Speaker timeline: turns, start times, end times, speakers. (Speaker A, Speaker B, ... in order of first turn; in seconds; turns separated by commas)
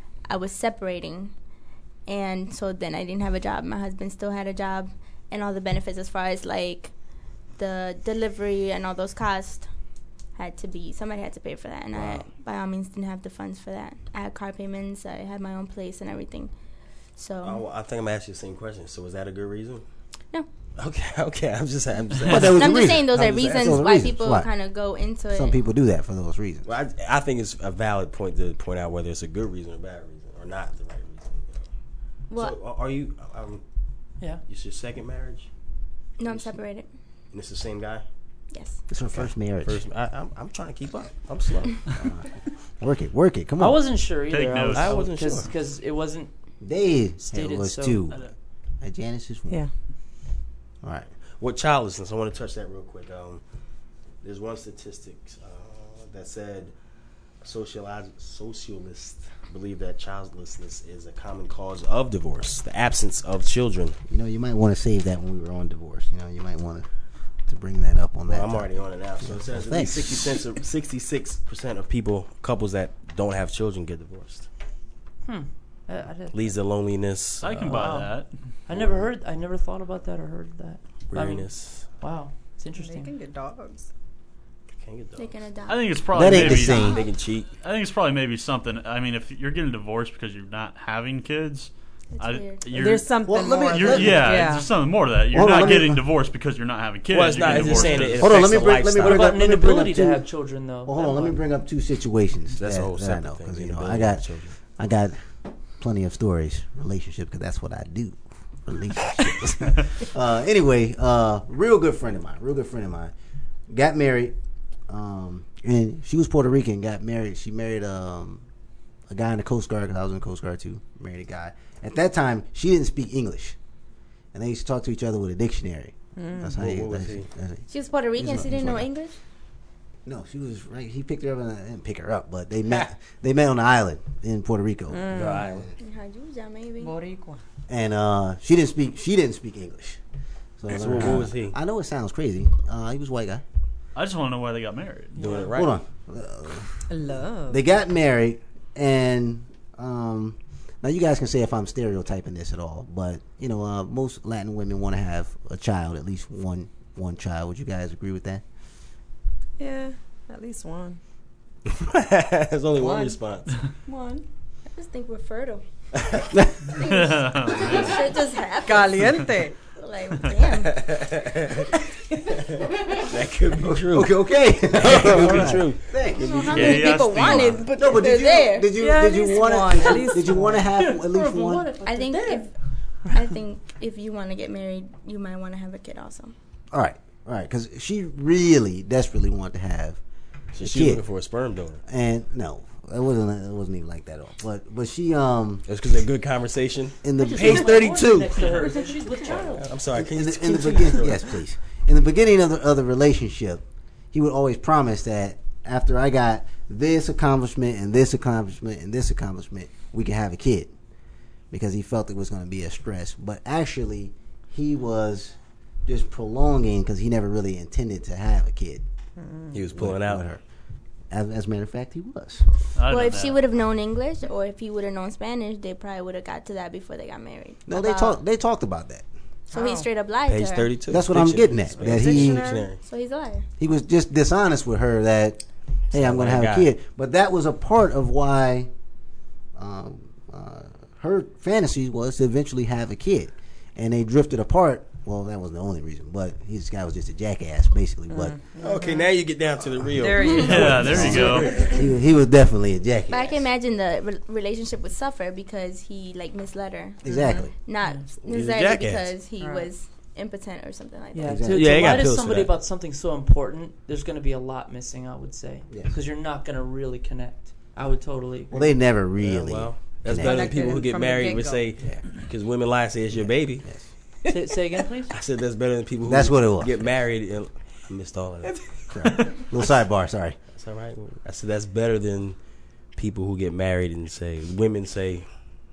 Speaker A: 0.3-1.3, Speaker A: 2.1-6.9, Speaker A: 7.6-9.7, Speaker A: 10.3-16.5, Speaker B: 11.9-12.2, Speaker A: 17.1-17.6, Speaker B: 17.4-19.8, Speaker B: 20.8-23.9, Speaker C: 22.2-22.5, Speaker D: 22.2-24.5, Speaker A: 22.4-25.6, Speaker D: 25.3-26.7, Speaker B: 26.6-31.6, Speaker A: 32.3-32.5, Speaker B: 32.3-33.6, Speaker B: 34.5-35.5, Speaker A: 36.2-36.9, Speaker B: 36.2-36.5, Speaker B: 37.3-38.0, Speaker A: 38.5-38.8, Speaker D: 38.9-39.8, Speaker B: 39.2-41.8, Speaker D: 41.9-43.8, Speaker E: 43.6-46.3, Speaker C: 44.3-45.0, Speaker B: 44.7-45.5, Speaker D: 46.6-48.3, Speaker E: 47.2-48.1, Speaker D: 48.8-49.6, Speaker D: 50.8-51.1, Speaker B: 51.4-53.4, Speaker B: 54.2-56.7, Speaker B: 57.4-64.0, Speaker D: 64.1-66.9, Speaker D: 67.5-70.4, Speaker B: 68.3-74.5, Speaker E: 75.2-76.5, Speaker B: 76.3-78.1, Speaker C: 77.4-78.3, Speaker E: 77.7-78.1, Speaker E: 78.7-83.1, Speaker B: 78.7-79.1, Speaker B: 81.1-81.8, Speaker F: 82.8-83.9, Speaker B: 84.8-85.4, Speaker A: 85.2-85.9, Speaker C: 85.7-87.0, Speaker D: 86.1-87.0, Speaker B: 86.2-87.5, Speaker C: 87.6-98.5, Speaker A: 92.1-92.6, Speaker F: 92.7-94.7, Speaker D: 93.2-94.4, Speaker D: 95.3-96.0, Speaker B: 97.1-99.3, Speaker D: 98.2-100.2, Speaker E: 98.9-101.4, Speaker D: 100.9-104.2, Speaker B: 102.6-104.5, Speaker D: 104.8-105.2, Speaker D: 105.8-113.1, Speaker D: 113.7-114.3, Speaker D: 114.9-118.4, Speaker D: 119.1-123.5, Speaker D: 124.3-128.9, Speaker F: 126.2-126.5, Speaker B: 126.5-127.3, Speaker A: 127.7-129.2, Speaker D: 130.1-135.7, Speaker F: 134.9-135.4, Speaker B: 135.1-135.7, Speaker A: 135.8-136.9, Speaker F: 136.8-137.4, Speaker D: 137.7-140.0, Speaker D: 140.6-143.4, Speaker B: 140.7-141.6, Speaker C: 143.9-145.3, Speaker E: 145.2-145.5, Speaker B: 145.2-145.8, Speaker D: 145.4-146.8, Speaker F: 146.9-147.6, Speaker D: 147.5-158.4, Speaker F: 159.6-161.0, Speaker B: 161.8-163.5, Speaker F: 162.8-163.2, Speaker F: 163.8-164.2, Speaker A: 164.7-165.6, Speaker C: 166.8-168.0, Speaker A: 166.8-170.7, Speaker F: 168.6-169.6, Speaker B: 170.7-171.7, Speaker B: 172.6-174.1, Speaker D: 173.9-176.8, Speaker B: 174.7-175.8, Speaker A: 176.1-178.7, Speaker C: 176.5-177.7, Speaker D: 177.3-181.7, Speaker F: 178.8-180.7, Speaker E: 180.7-182.5, Speaker A: 181.8-182.5, Speaker A: 183.1-186.3, Speaker D: 186.7-190.0, Speaker B: 190.5-191.8, Speaker D: 190.6-191.0, Speaker D: 191.8-195.7, Speaker B: 195.7-197.9, Speaker D: 197.0-198.3, Speaker E: 197.2-199.7, Speaker B: 199.5-201.3, Speaker D: 199.9-210.7, Speaker D: 211.5-215.3, Speaker D: 215.8-218.8, Speaker F: 219.2-219.6, Speaker B: 219.5-220.2, Speaker D: 219.7-220.4, Speaker D: 221.1-222.4, Speaker C: 222.8-223.4, Speaker A: 222.9-228.2, Speaker D: 227.7-229.0, Speaker F: 229.5-229.9, Speaker A: 229.5-230.7, Speaker B: 230.2-232.8, Speaker D: 230.9-232.6, Speaker F: 231.8-232.7, Speaker A: 232.8-233.4, Speaker D: 233.6-235.4, Speaker B: 235.9-236.7, Speaker D: 235.9-238.7, Speaker D: 239.6-248.3, Speaker F: 248.1-249.1, Speaker B: 248.6-251.8, Speaker F: 250.0-251.4, Speaker C: 250.2-251.7, Speaker D: 250.6-253.4, Speaker E: 251.4-251.7, Speaker A: 253.1-261.5, Speaker D: 257.0-257.5, Speaker F: 257.1-257.5, Speaker E: 257.8-258.1, Speaker B: 258.2-259.1, Speaker F: 259.4-259.7, Speaker E: 261.1-268.8, Speaker D: 261.2-261.7, Speaker B: 261.5-262.5, Speaker D: 265.7-265.9, Speaker D: 268.5-270.6, Speaker B: 269.2-273.7, Speaker F: 270.2-271.7, Speaker D: 273.2-273.9, Speaker E: 274.3-275.1, Speaker B: 275.1-278.8, Speaker D: 276.0-276.7, Speaker D: 278.9-280.4, Speaker B: 280.5-282.4, Speaker B: 282.9-285.2